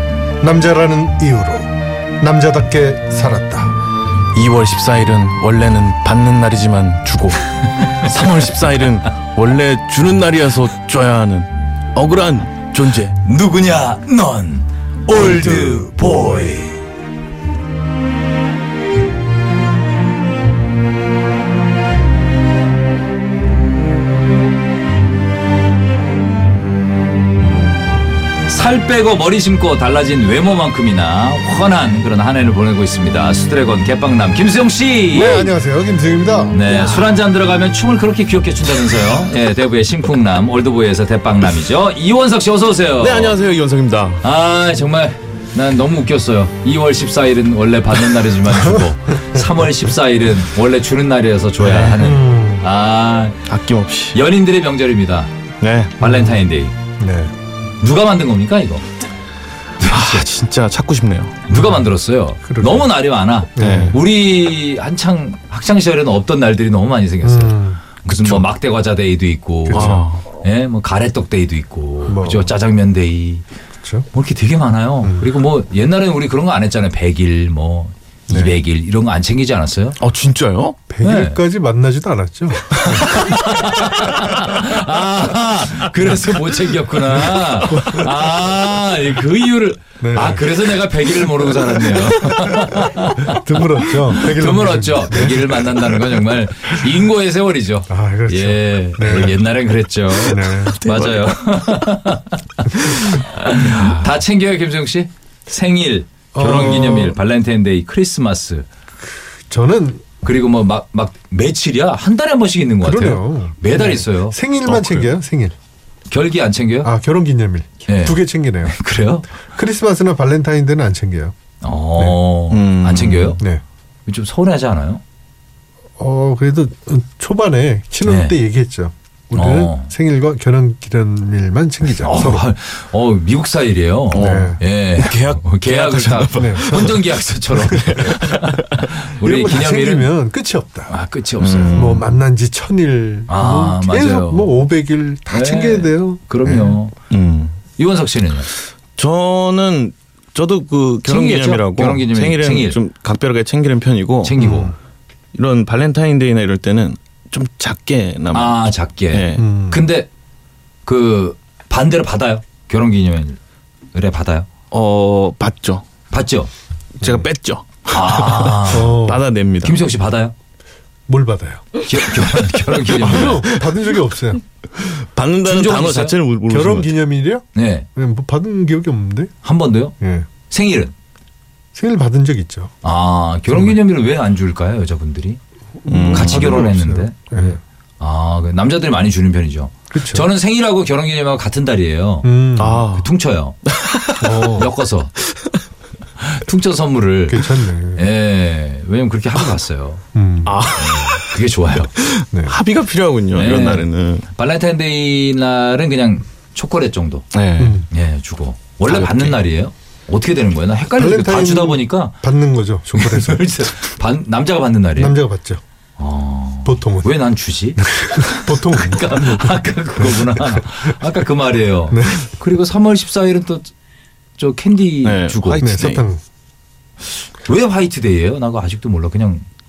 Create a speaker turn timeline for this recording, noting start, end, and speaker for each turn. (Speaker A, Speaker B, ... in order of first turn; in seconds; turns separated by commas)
Speaker A: 0.4-3.7, Speaker B: 4.3-13.2, Speaker C: 13.2-16.8, Speaker A: 15.2-15.7, Speaker C: 28.5-35.5, Speaker A: 35.1-36.6, Speaker C: 36.5-43.4, Speaker B: 36.7-37.1, Speaker B: 43.0-44.2, Speaker C: 44.2-53.4, Speaker A: 51.6-52.7, Speaker B: 53.5-54.2, Speaker C: 54.1-55.3, Speaker B: 55.6-56.0, Speaker C: 56.0-56.7, Speaker A: 56.0-56.4, Speaker A: 57.0-57.3, Speaker C: 57.8-58.9, Speaker C: 59.8-60.3, Speaker B: 59.8-61.4, Speaker C: 61.5-73.4, Speaker A: 61.5-61.9, Speaker A: 62.4-62.9, Speaker A: 63.6-64.0, Speaker B: 63.6-64.0, Speaker A: 67.2-67.8, Speaker B: 68.1-68.5, Speaker A: 69.7-70.1, Speaker B: 69.7-70.2, Speaker A: 72.1-72.5, Speaker C: 74.1-80.0, Speaker B: 80.0-80.8, Speaker A: 80.9-83.1, Speaker C: 81.0-81.4, Speaker C: 82.9-108.7, Speaker A: 87.8-88.0, Speaker A: 90.0-90.5, Speaker A: 93.3-95.6, Speaker A: 97.9-99.4, Speaker A: 100.3-100.8, Speaker B: 100.5-101.4, Speaker A: 106.3-107.2, Speaker A: 109.5-110.1, Speaker C: 110.2-114.4, Speaker A: 112.8-115.5, Speaker B: 114.7-115.1, Speaker C: 116.1-116.9, Speaker A: 116.8-118.8, Speaker C: 117.9-119.3, Speaker A: 119.5-121.3, Speaker C: 121.6-123.4, Speaker B: 122.5-123.4, Speaker C: 124.1-125.0, Speaker A: 126.0-132.4, Speaker C: 128.1-128.4, Speaker C: 129.3-129.9, Speaker C: 132.0-140.1, Speaker B: 134.1-137.0, Speaker A: 134.1-134.6, Speaker A: 136.3-137.0, Speaker B: 137.6-138.9, Speaker A: 139.2-140.9, Speaker C: 140.9-141.9, Speaker B: 141.4-142.1, Speaker A: 141.7-146.7, Speaker C: 143.3-144.6, Speaker C: 145.3-146.9, Speaker B: 147.1-147.6, Speaker C: 147.8-148.5, Speaker B: 149.0-154.6, Speaker C: 151.1-152.8, Speaker C: 154.2-154.7, Speaker A: 154.4-154.7, Speaker B: 155.3-159.4, Speaker C: 158.3-160.1, Speaker A: 159.4-159.8, Speaker C: 160.9-163.4, Speaker C: 163.9-164.5, Speaker B: 164.7-165.8, Speaker C: 166.1-166.5, Speaker A: 167.0-167.3, Speaker B: 167.0-169.8, Speaker C: 167.9-169.0, Speaker A: 168.7-169.3, Speaker C: 169.6-170.3, Speaker A: 171.1-171.8, Speaker C: 171.8-173.4, Speaker A: 172.9-174.4, Speaker B: 173.1-173.7, Speaker B: 174.8-176.9, Speaker C: 175.5-176.2, Speaker A: 176.5-179.3, Speaker C: 177.5-177.9, Speaker C: 179.4-180.0, Speaker A: 180.0-180.3, Speaker C: 180.5-180.9, Speaker A: 181.7-182.7, Speaker C: 182.8-185.4, Speaker A: 183.5-183.8, Speaker A: 185.8-187.6, Speaker B: 185.9-186.6, Speaker C: 186.1-192.3, Speaker A: 189.9-190.3, Speaker A: 192.2-192.9, Speaker B: 192.6-193.1, Speaker C: 192.9-193.6, Speaker B: 193.7-194.6, Speaker A: 194.2-194.7, Speaker C: 194.3-195.1, Speaker C: 196.2-200.0, Speaker A: 197.3-198.1, Speaker A: 200.1-200.7, Speaker B: 200.4-201.3, Speaker C: 200.8-201.9, Speaker B: 201.9-204.3, Speaker C: 203.3-207.3, Speaker B: 207.3-207.8, Speaker A: 207.6-207.9, Speaker C: 207.9-212.2, Speaker B: 208.9-209.4, Speaker A: 211.0-213.6, Speaker C: 212.9-215.2, Speaker A: 215.0-215.6, Speaker C: 216.0-223.7, Speaker A: 216.7-217.2, Speaker A: 217.8-220.7, Speaker A: 221.9-222.3, Speaker C: 224.4-225.7, Speaker B: 225.0-226.1, Speaker A: 225.6-226.2, Speaker C: 227.1-229.4